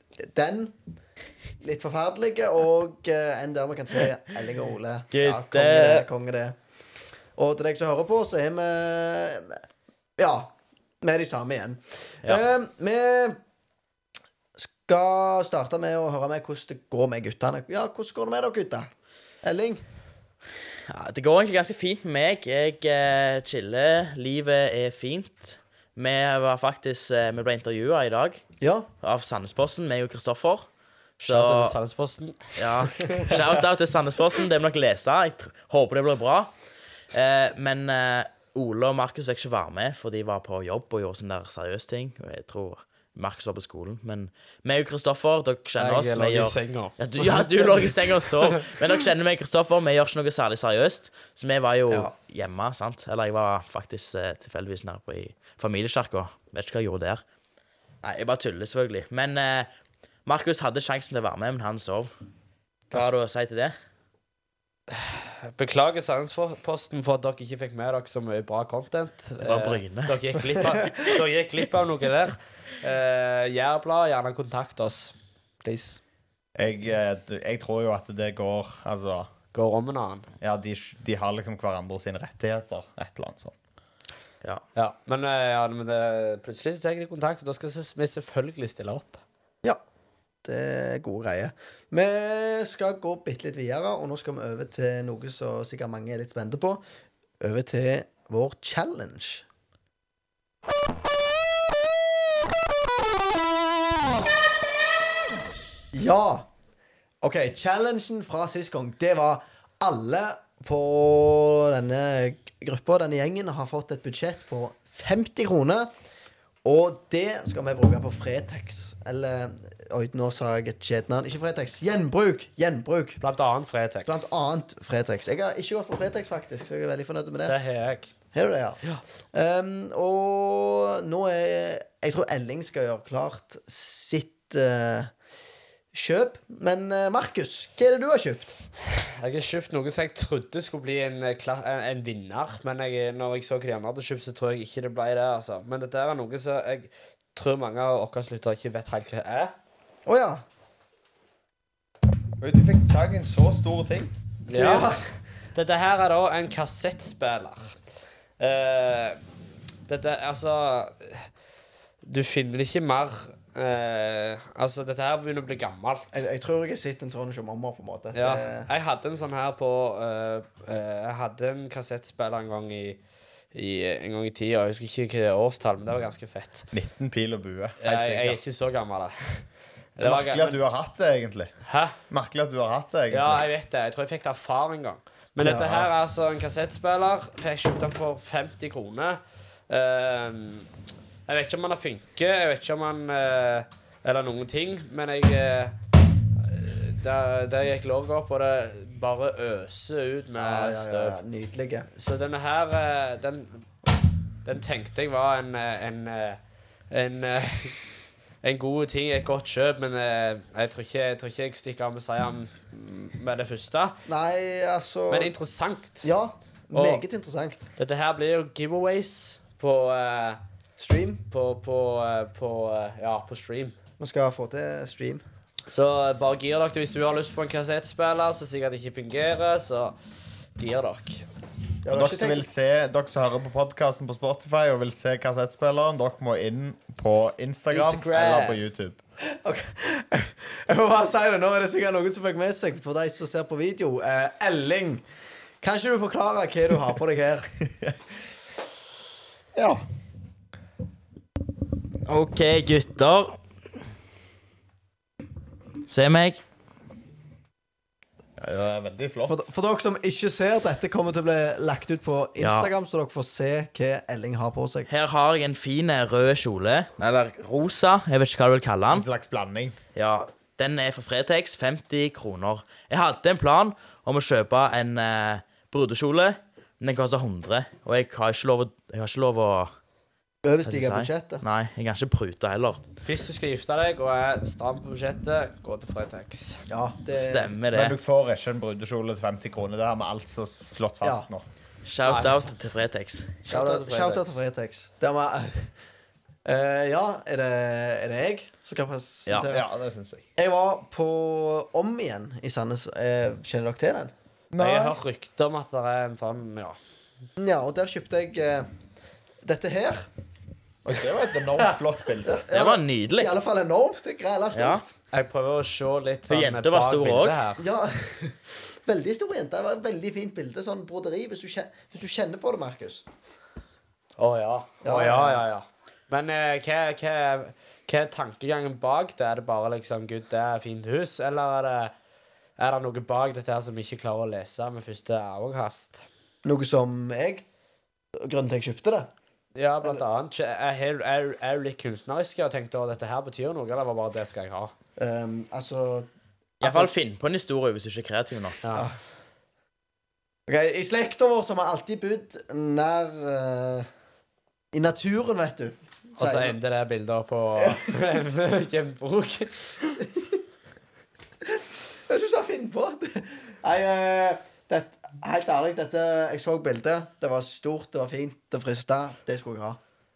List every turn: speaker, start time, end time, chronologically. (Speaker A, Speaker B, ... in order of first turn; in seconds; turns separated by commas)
Speaker A: 0.2-0.8, Speaker A: 1.6-6.6, Speaker B: 5.1-6.1, Speaker A: 7.4-9.6, Speaker A: 10.2-13.4, Speaker A: 14.6-18.9, Speaker A: 19.4-19.8, Speaker B: 20.9-28.4, Speaker A: 28.6-28.9, Speaker B: 29.0-30.7, Speaker B: 31.2-31.8, Speaker C: 31.2-33.4, Speaker B: 32.6-36.5, Speaker B: 37.1-57.2, Speaker C: 45.8-48.8, Speaker B: 58.0-59.7, Speaker B: 60.3-62.1, Speaker B: 62.9-63.8, Speaker C: 64.9-76.0, Speaker B: 69.4-70.1, Speaker D: 76.6-79.3, Speaker C: 79.5-80.3, Speaker D: 80.4-83.5, Speaker C: 84.8-89.2, Speaker A: 90.5-96.8, Speaker A: 97.4-99.5, Speaker A: 105.9-106.5, Speaker A: 107.2-115.9, Speaker A: 116.6-123.2, Speaker C: 123.2-124.3, Speaker A: 124.1-127.6, Speaker C: 127.5-128.1, Speaker A: 128.3-128.8, Speaker A: 129.3-135.1, Speaker A: 135.9-138.5, Speaker C: 139.2-149.5, Speaker A: 150.1-150.4, Speaker D: 152.4-154.1, Speaker C: 154.5-155.0, Speaker A: 154.5-155.0, Speaker C: 155.5-157.8, Speaker C: 158.4-159.2, Speaker C: 159.9-161.3, Speaker C: 162.0-166.2, Speaker A: 166.1-168.7, Speaker C: 168.1-173.0, Speaker C: 173.5-176.7, Speaker D: 176.7-178.4, Speaker C: 177.8-180.6, Speaker D: 180.0-181.5, Speaker C: 181.7-182.0, Speaker D: 182.1-183.4, Speaker C: 183.1-190.7, Speaker A: 185.4-185.8, Speaker C: 191.3-195.8, Speaker C: 196.4-201.2, Speaker A: 200.4-201.9, Speaker C: 201.9-203.7, Speaker C: 204.4-206.4, Speaker C: 206.9-207.8, Speaker C: 208.4-214.0, Speaker A: 214.1-215.3, Speaker C: 215.1-216.1, Speaker A: 216.0-217.7, Speaker C: 216.7-217.0, Speaker C: 217.8-220.4, Speaker A: 220.8-221.2, Speaker C: 221.3-223.8, Speaker A: 224.0-225.2, Speaker C: 225.7-230.0, Speaker C: 230.6-231.3, Speaker A: 231.8-232.4, Speaker D: 231.9-239.0, Speaker C: 237.7-238.6, Speaker A: 239.4-245.1, Speaker A: 245.6-247.7, Speaker D: 249.6-249.8, Speaker B: 252.1-253.4, Speaker B: 255.9-256.4, Speaker D: 258.4-259.4, Speaker A: 259.3-264.9, Speaker B: 262.4-262.7, Speaker B: 264.9-269.1, Speaker D: 268.9-269.8, Speaker B: 269.9-279.7, Speaker A: 280.4-281.4, Speaker B: 280.6-282.8, Speaker C: 283.0-286.6, Speaker A: 286.7-287.6, Speaker B: 287.1-288.0, Speaker D: 287.7-291.4, Speaker B: 291.9-293.4, Speaker C: 292.0-292.6, Speaker C: 293.5-294.4, Speaker A: 293.5-295.7, Speaker A: 296.4-299.6, Speaker D: 299.4-300.2, Speaker A: 300.4-304.1, Speaker D: 304.5-305.0, Speaker C: 304.6-306.8, Speaker A: 307.4-308.7, Speaker A: 309.4-310.1, Speaker D: 310.9-312.4, Speaker A: 312.2-314.9, Speaker B: 312.5-313.4, Speaker B: 314.5-314.8, Speaker C: 315.1-317.7, Speaker B: 316.3-317.4, Speaker A: 317.6-323.0, Speaker C: 324.2-331.9, Speaker A: 324.8-325.4, Speaker C: 332.6-336.0, Speaker A: 336.4-337.4, Speaker A: 338.2-339.1, Speaker C: 339.6-344.7, Speaker A: 345.0-346.1, Speaker B: 346.6-348.6, Speaker A: 346.6-346.9, Speaker C: 348.6-348.9, Speaker A: 350.5-353.9, Speaker A: 354.7-356.6, Speaker C: 356.2-360.0, Speaker A: 357.6-357.9, Speaker A: 360.0-360.4, Speaker A: 361.4-369.8